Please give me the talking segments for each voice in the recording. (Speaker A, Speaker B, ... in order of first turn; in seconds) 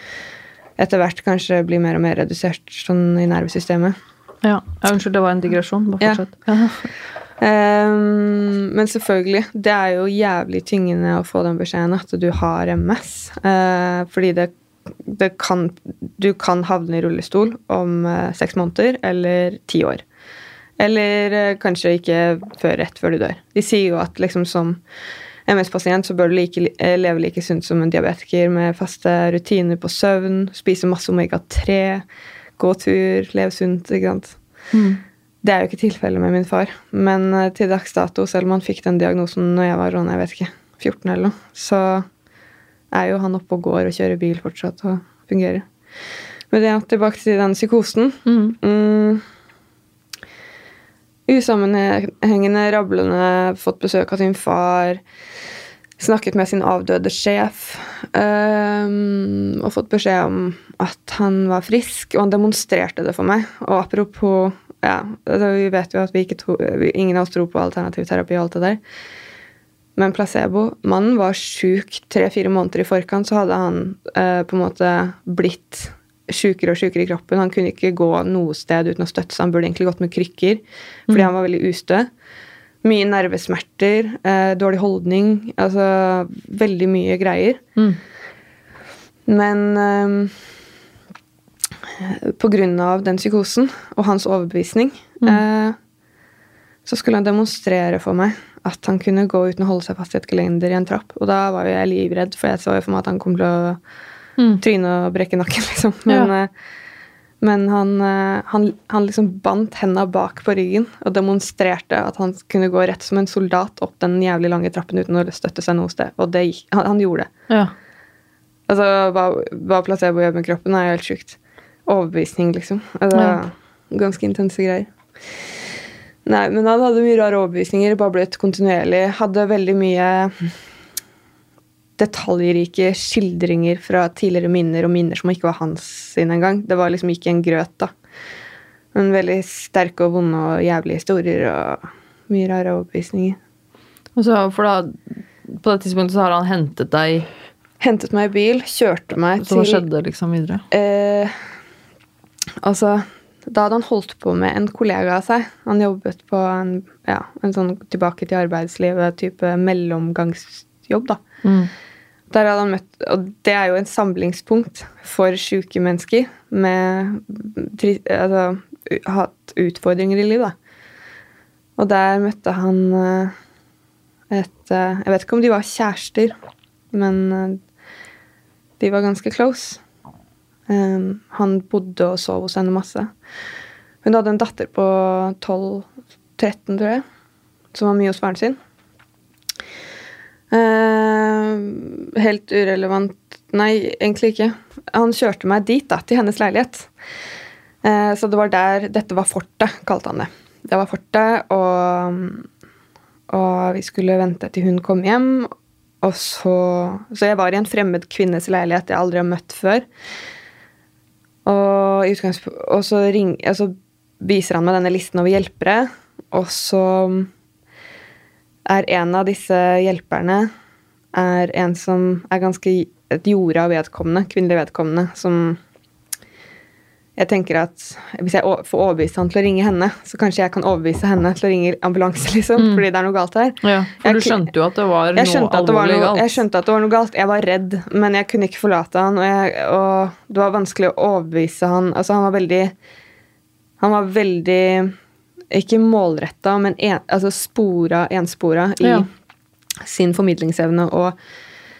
Speaker A: 0.8-4.0, 7.4-20.0, 20.8-24.8, 25.5-32.0, 32.6-34.4, 35.4-42.1, 42.9-45.7, 46.5-49.2, 51.3-55.0, 56.0-68.8, 70.0-82.1, 82.8-87.6, 89.3-90.4, 92.0-95.8, 96.9-103.8, 104.6-106.5, 107.4-117.3, 118.7-125.5, 126.2-130.6, 132.0-137.9, 138.9-143.4, 147.8-149.8, 150.7-151.5, 152.6-161.2, 162.3-170.6, 171.8-173.3, 174.3-176.3, 176.9-177.6, 178.8-179.8, 180.7-183.1, 184.0-187.0, 187.7-188.6, 190.5-196.9, 197.8-202.5, 203.3-209.9, 211.4-217.3, 218.7-220.5, 221.1-225.6, 227.2-234.5, 235.2-242.7, 243.8-244.9, 245.5-249.1, 249.8-251.2
Speaker B: 4.4-6.9, 34.7-35.0, 48.3-48.6, 123.1-123.4, 144.2-144.9, 145.5-147.3, 149.4-150.6, 161.4-161.7, 232.6-232.8, 233.6-236.4, 248.8-249.1